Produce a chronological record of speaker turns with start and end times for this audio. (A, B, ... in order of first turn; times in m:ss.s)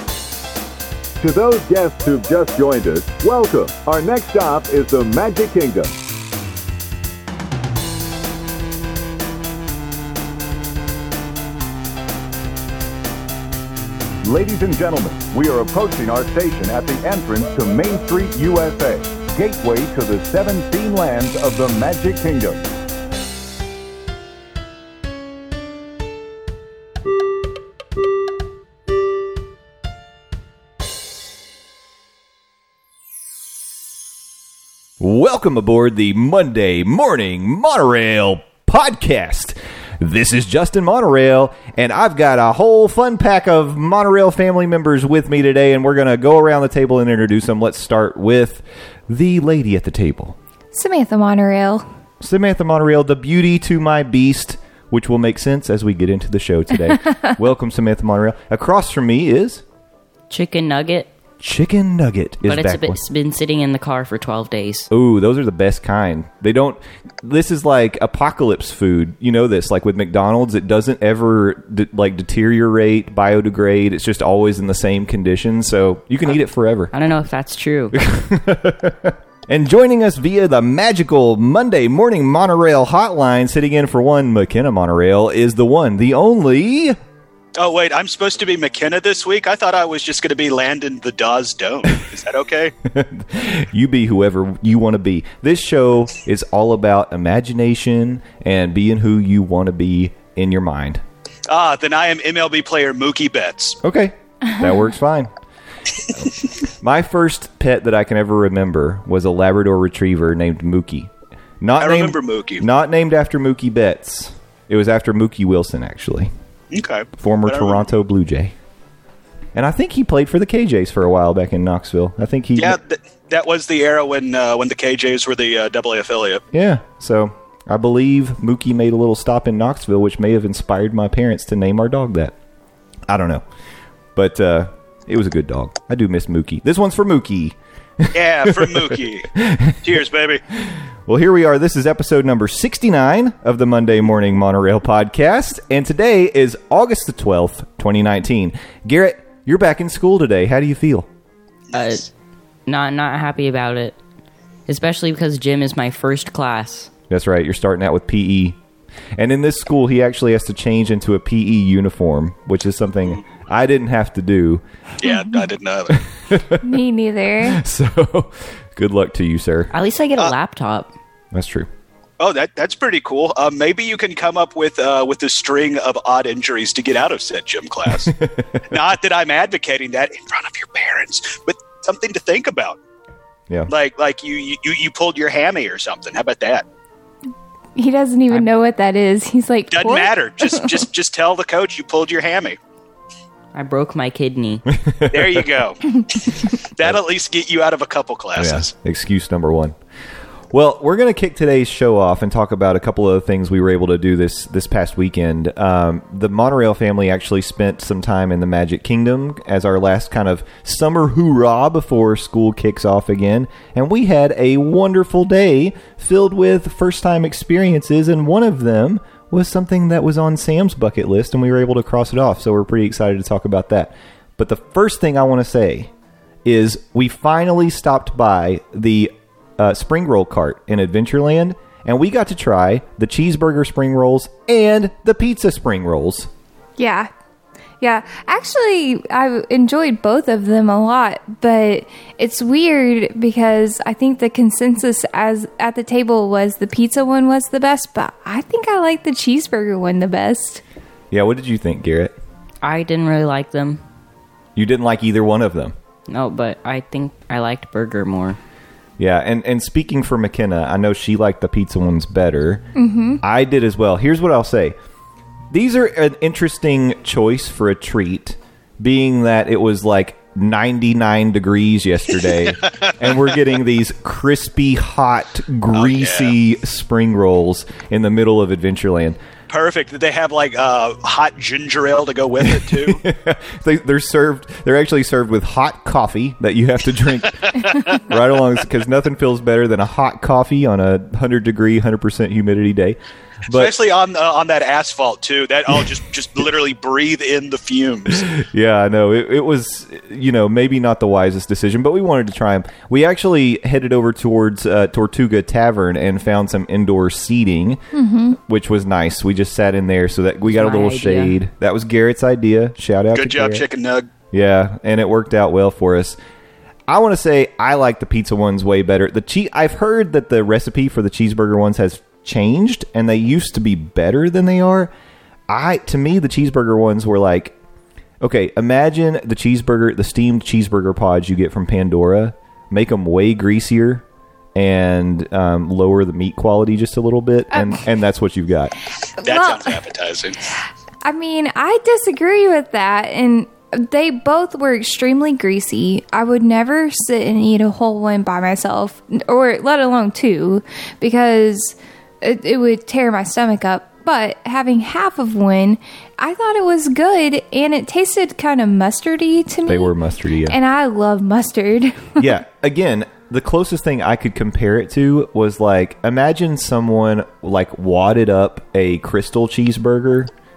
0:01.2-0:06.0 A
0:14.2-0:22.6 A
0:35.0-0:50.4 B
0:50.7-0:51.8 C
0:52.2-0:59.6 B
1:00.3-1:01.1 D
1:01.4-1:03.0 B
1:02.4-1:04.9 D
1:04.9-1:16.9 B
1:16.9-1:18.0 D
1:17.9-1:27.0 B
1:27.6-1:32.7 E
1:32.8-1:41.0 B
1:41.5-1:43.8 E
1:43.8-1:45.3 B
1:46.1-1:56.3 B
1:51.8-1:52.6 E
1:56.7-1:57.8 E
1:57.2-1:58.5 B
1:59.5-2:02.8 B
2:02.6-2:06.4 E
2:06.5-2:12.3 B
2:13.1-2:13.4 B
2:14.2-2:20.0 B
2:18.1-2:20.4 E
2:20.6-2:31.1 B
2:31.7-2:32.1 D
2:32.7-2:34.0 D
2:34.7-2:36.9 D
2:37.1-2:38.6 B
2:39.2-2:44.6 B
2:45.0-2:46.0 E
2:45.0-2:45.4 C
2:45.9-2:46.8 B
2:46.6-2:47.6 C
2:47.4-2:49.7 B
2:49.7-2:50.9 D
2:51.3-2:51.7 B
2:52.2-2:58.2 E
2:58.0-2:58.6 B
2:58.7-3:02.8 E
3:03.7-3:06.6 E
3:07.8-3:10.7 C
3:09.7-3:12.6 E
3:13.5-3:14.6 D
3:14.7-3:15.6 B
3:15.1-3:15.8 E
3:16.7-3:18.7 E
3:18.4-3:19.8 B
3:20.5-3:45.9 B
3:46.4-3:56.3 B
3:56.8-3:57.1 C
3:57.8-4:10.6 C
4:11.1-4:12.2 B
4:12.6-4:13.8 D
4:14.6-4:15.7 B
4:16.1-4:18.4 D
4:19.0-4:22.6 B
4:22.8-4:23.2 C
4:23.2-4:24.8 B
4:25.5-4:39.2 B
4:32.6-4:33.0 E
4:35.7-4:36.4 E
4:39.5-4:43.0 E
4:42.4-4:53.7 B
4:47.5-4:48.0 E
4:53.5-4:58.3 E
4:58.1-5:07.8 B
5:07.9-5:08.4 C
5:08.4-5:13.6 B
5:10.5-5:11.4 D
5:13.1-5:14.1 E
5:14.3-5:16.2 B
5:16.9-5:24.9 B
5:25.5-5:27.6 B
5:28.2-5:38.7 B
5:37.5-5:37.8 C
5:39.2-5:39.8 C
5:39.2-5:40.4 E
5:41.0-5:59.9 C
5:59.7-6:00.6 B
6:00.5-6:02.2 C
6:02.2-6:10.3 B